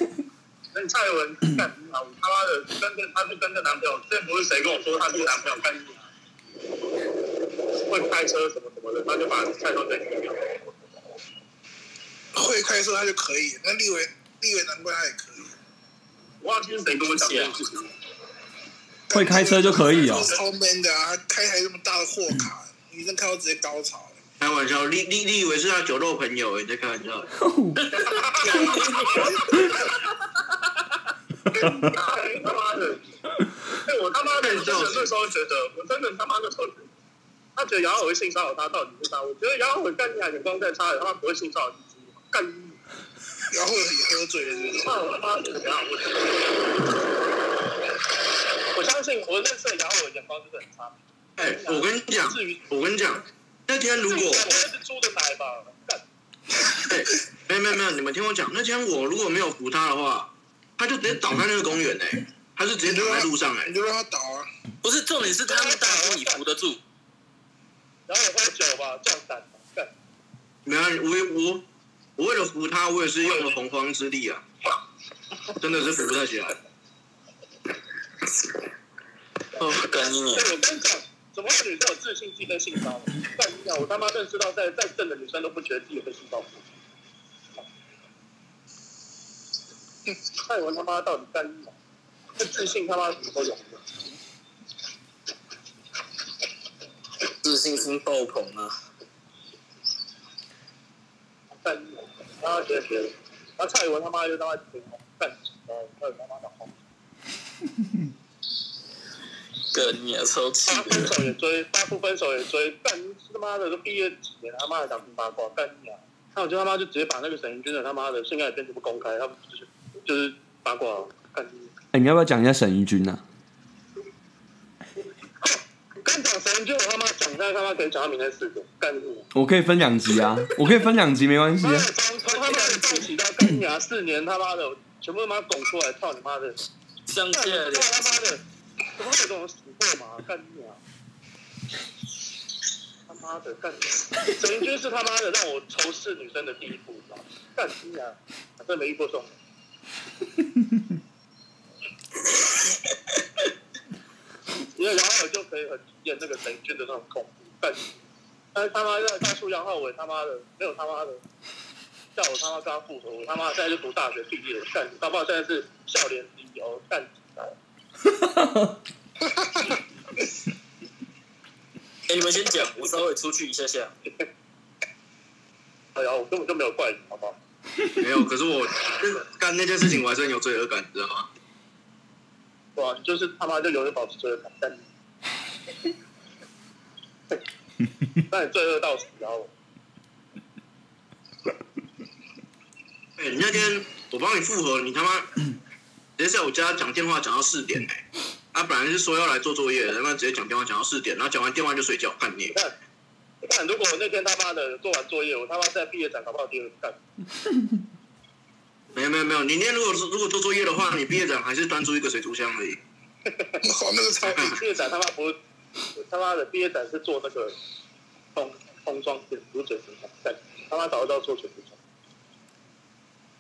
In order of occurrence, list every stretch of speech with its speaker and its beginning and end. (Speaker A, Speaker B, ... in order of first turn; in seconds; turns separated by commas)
Speaker A: 0.7-6.0, Speaker A: 7.8-10.6, Speaker B: 12.3-15.5, Speaker A: 16.4-17.9, Speaker C: 17.1-17.6, Speaker B: 19.1-24.2, Speaker D: 19.1-20.3, Speaker E: 24.4-27.3, Speaker D: 27.4-27.8, Speaker A: 27.9-30.1, Speaker C: 28.4-29.4, Speaker A: 31.5-33.1, Speaker A: 33.8-36.9, Speaker E: 34.4-35.1, Speaker A: 37.6-42.8, Speaker B: 43.5-44.9, Speaker A: 44.7-47.0, Speaker A: 48.7-52.6, Speaker E: 51.4-54.6, Speaker A: 54.0-56.0, Speaker E: 56.8-63.7, Speaker B: 62.8-64.5, Speaker C: 64.8-66.8, Speaker A: 65.5-66.4, Speaker A: 68.1-69.9, Speaker E: 70.7-71.6, Speaker E: 72.2-74.5, Speaker E: 75.6-76.6, Speaker C: 79.6-80.5, Speaker A: 80.3-86.6, Speaker A: 90.4-91.7, Speaker A: 92.4-93.8, Speaker C: 97.4-98.7, Speaker A: 101.6-106.7, Speaker C: 109.7-111.1, Speaker A: 110.7-121.7, Speaker D: 121.9-123.2, Speaker A: 125.4-129.3, Speaker D: 129.3-131.9, Speaker A: 131.6-136.6, Speaker C: 137.1-137.9, Speaker A: 137.3-138.4, Speaker A: 139.0-140.8, Speaker A: 143.1-149.4, Speaker A: 154.7-158.0, Speaker A: 158.5-161.2, Speaker A: 162.2-167.6, Speaker D: 168.1-168.8, Speaker B: 169.2-169.7, Speaker C: 172.1-173.9, Speaker A: 175.9-177.3, Speaker E: 177.9-181.3, Speaker A: 182.8-184.8, Speaker A: 188.3-189.5, Speaker E: 193.2-195.4, Speaker E: 196.2-202.6, Speaker A: 203.4-207.0, Speaker E: 208.9-212.8, Speaker B: 213.6-214.6, Speaker E: 214.3-214.6, Speaker A: 214.6-215.4, Speaker A: 215.9-217.6, Speaker A: 218.3-221.8